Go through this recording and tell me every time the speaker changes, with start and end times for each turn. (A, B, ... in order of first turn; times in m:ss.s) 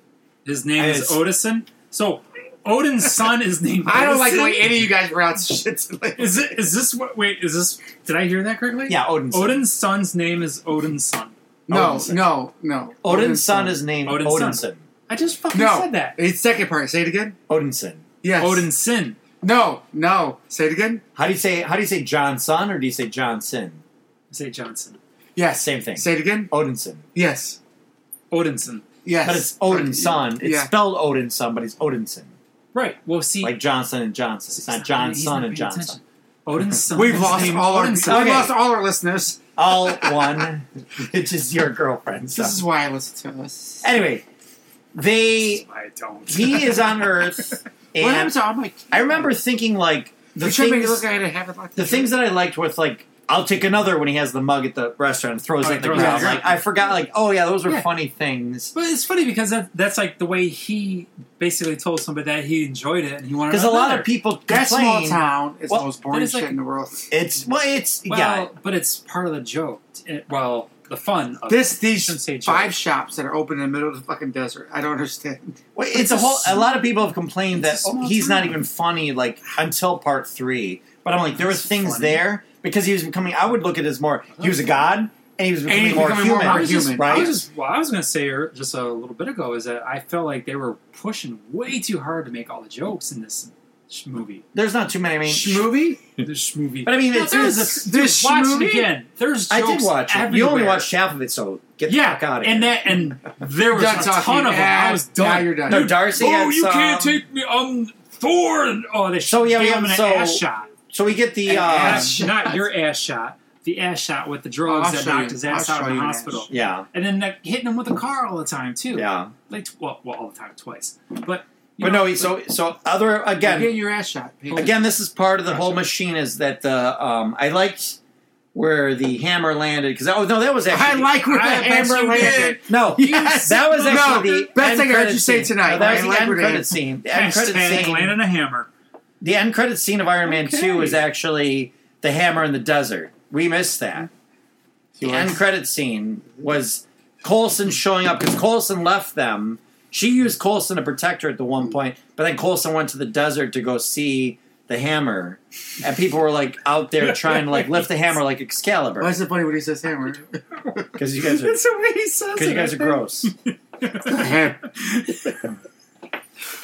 0:00.4-0:04.9 A
0:00.8-0:01.2 B
0:03.8-0:06.5 C
0:06.2-0:11.4 A
0:08.9-0:09.6 B
0:11.7-0:12.3 B
0:11.7-0:13.8 C
0:13.0-0:14.8 B
0:14.0-0:16.2 A
0:15.5-0:17.4 C
0:17.5-0:18.0 B
0:18.2-0:18.7 C
0:18.4-0:19.2 A
0:19.4-0:21.0 C
0:21.2-0:23.8 B
0:24.3-0:25.0 A
0:25.4-0:26.5 C
0:25.6-0:27.0 B
0:27.1-0:27.6 C
0:28.3-0:28.9 A
0:29.0-0:30.7 C
0:29.2-0:32.3 B
0:32.7-0:33.6 A
0:33.4-0:36.0 B
0:34.5-0:38.4 A
0:36.9-0:40.2 C
0:38.0-0:38.6 B
0:39.6-0:42.6 B
0:42.3-0:43.9 C
0:43.8-0:44.3 B
0:44.9-0:45.6 B
0:45.4-0:47.5 A
0:46.3-0:48.3 B
0:48.0-0:49.3 C
0:48.9-0:51.1 B
0:50.4-0:52.2 C
0:51.8-0:58.7 B
0:55.6-0:56.6 A
0:55.9-0:56.5 C
0:58.7-1:04.1 A
1:03.5-1:05.9 B
1:04.5-1:07.1 C
1:06.1-1:06.6 A
1:07.1-1:08.5 B
1:08.1-1:12.8 A
1:11.5-1:16.6 C
1:15.8-1:27.4 B
1:17.6-1:18.6 A
1:21.3-1:22.2 A
1:24.4-1:24.8 A
1:25.7-1:27.4 C
1:26.0-1:34.5 A
1:34.5-1:35.8 B
1:35.3-1:36.0 C
1:35.5-1:40.9 A
1:36.8-1:38.0 B
1:37.2-1:38.9 C
1:39.5-1:42.8 B
1:41.9-1:50.7 A
1:43.7-1:45.9 C
1:45.7-1:47.2 B
1:49.3-1:52.2 B
1:51.5-2:02.4 A
1:51.5-1:52.6 C
1:54.7-1:56.5 C
1:56.5-1:56.9 B
1:58.9-1:59.3 B
2:01.8-2:03.8 B
2:03.4-2:04.8 C
2:04.5-2:08.0 B
2:05.5-2:05.8 A
2:08.5-2:11.1 B
2:10.7-2:16.7 C
2:11.2-2:14.5 A
2:12.6-2:18.2 B
2:15.7-2:16.1 A
2:17.1-2:18.7 A
2:19.2-2:24.1 B
2:20.3-2:21.0 A
2:25.0-2:25.4 C
2:25.0-2:39.2 B
2:37.0-2:37.9 A
2:39.0-2:40.9 C
2:41.0-2:41.6 B
2:41.2-2:45.5 A
2:42.4-2:43.3 B
2:44.0-2:44.6 C